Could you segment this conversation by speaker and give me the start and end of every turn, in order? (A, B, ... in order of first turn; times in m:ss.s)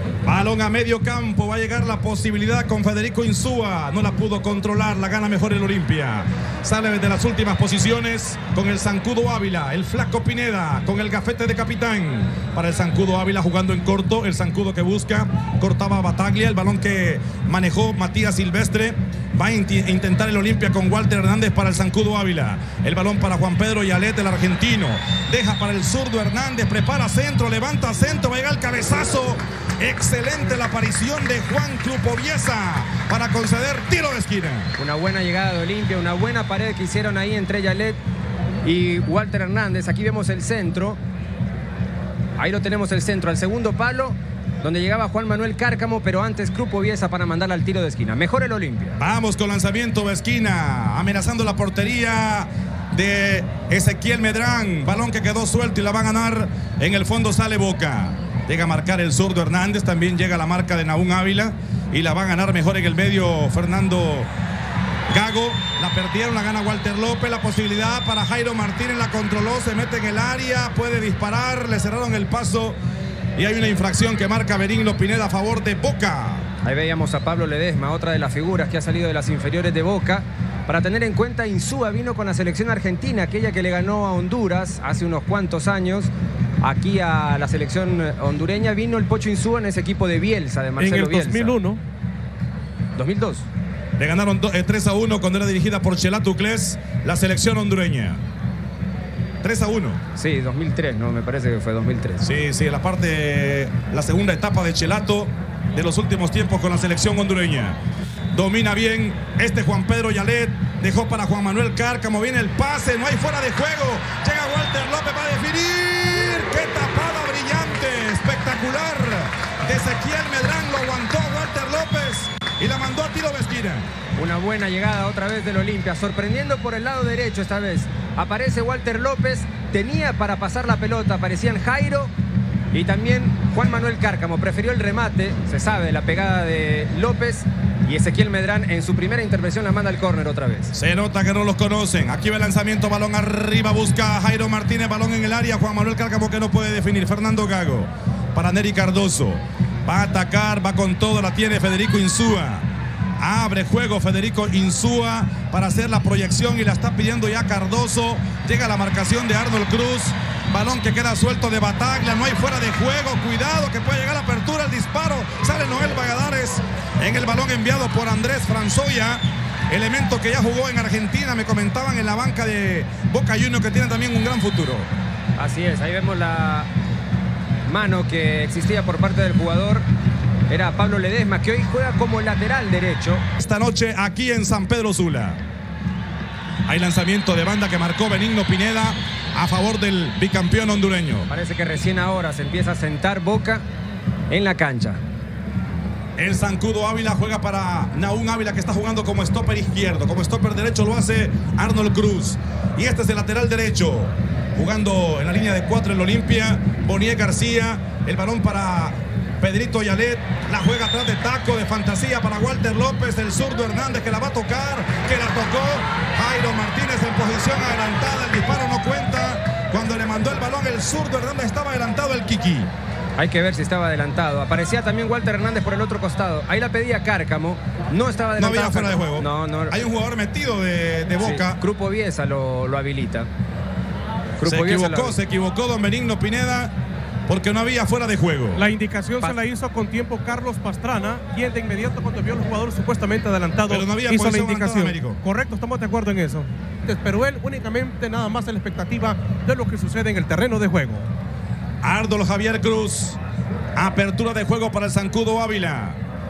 0:00.2-0:34.7 A
0:34.8-0:38.0 B
0:38.6-0:41.0 B
0:42.4-0:49.0 B
0:49.0-1:04.3 A
1:05.1-1:12.8 A
1:13.4-1:16.5 A
1:16.6-1:26.1 B
1:26.6-1:31.6 B
1:30.8-1:31.8 C
1:33.0-1:33.4 B
1:34.0-1:38.2 A
1:39.4-1:40.0 A
1:40.2-1:42.3 B
1:42.2-1:47.8 A
1:48.3-2:03.9 A
2:04.2-2:12.1 B
2:12.7-2:20.7 B
2:20.7-2:32.7 A
2:33.2-2:54.9 A
2:55.4-2:56.7 B
2:57.6-2:59.8 B
3:00.5-3:03.2 B
3:03.4-3:05.4 A
3:06.6-3:11.3 A
3:11.3-3:13.6 B
3:14.3-3:15.0 B
3:16.2-3:42.7 A
3:43.2-3:49.8 B
3:48.4-3:51.6 A
3:51.2-3:53.3 B
3:54.4-3:55.2 B
3:54.4-3:56.7 A
3:57.3-3:58.6 A
3:58.6-4:11.0 C
4:03.7-4:05.2 A
4:11.8-4:13.2 A
4:13.8-4:16.0 A